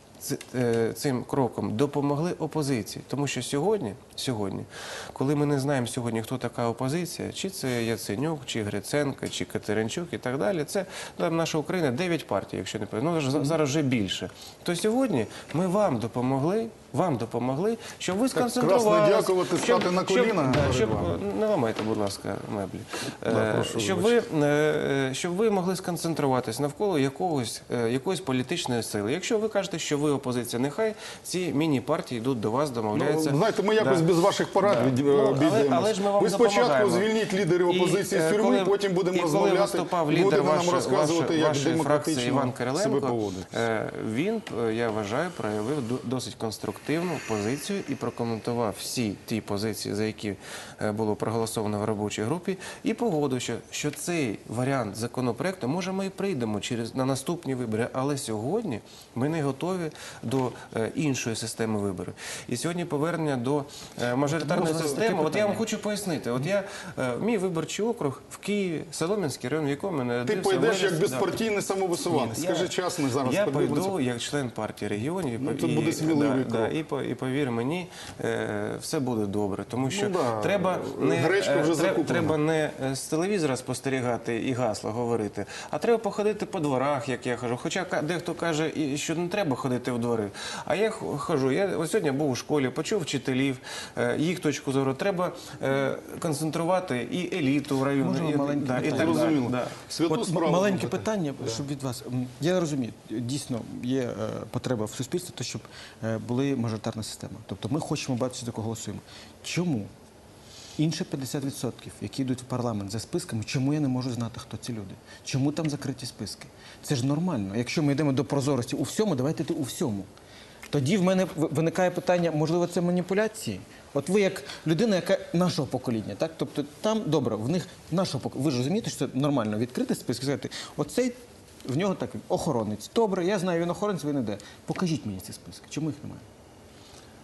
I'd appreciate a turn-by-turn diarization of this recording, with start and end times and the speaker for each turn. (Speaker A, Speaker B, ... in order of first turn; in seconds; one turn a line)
Speaker A: 0.2-37.1
Speaker B: 18.3-21.2
Speaker B: 23.2-24.2
Speaker B: 32.9-43.6
Speaker A: 37.7-71.3
Speaker B: 64.4-65.5
Speaker C: 64.4-65.6
Speaker B: 70.2-74.0
Speaker A: 72.1-99.8
Speaker B: 75.4-76.7
Speaker B: 79.9-82.4
Speaker C: 98.0-99.4
Speaker B: 98.8-101.6
Speaker C: 100.0-109.9
Speaker C: 110.8-120.1
Speaker C: 120.7-136.3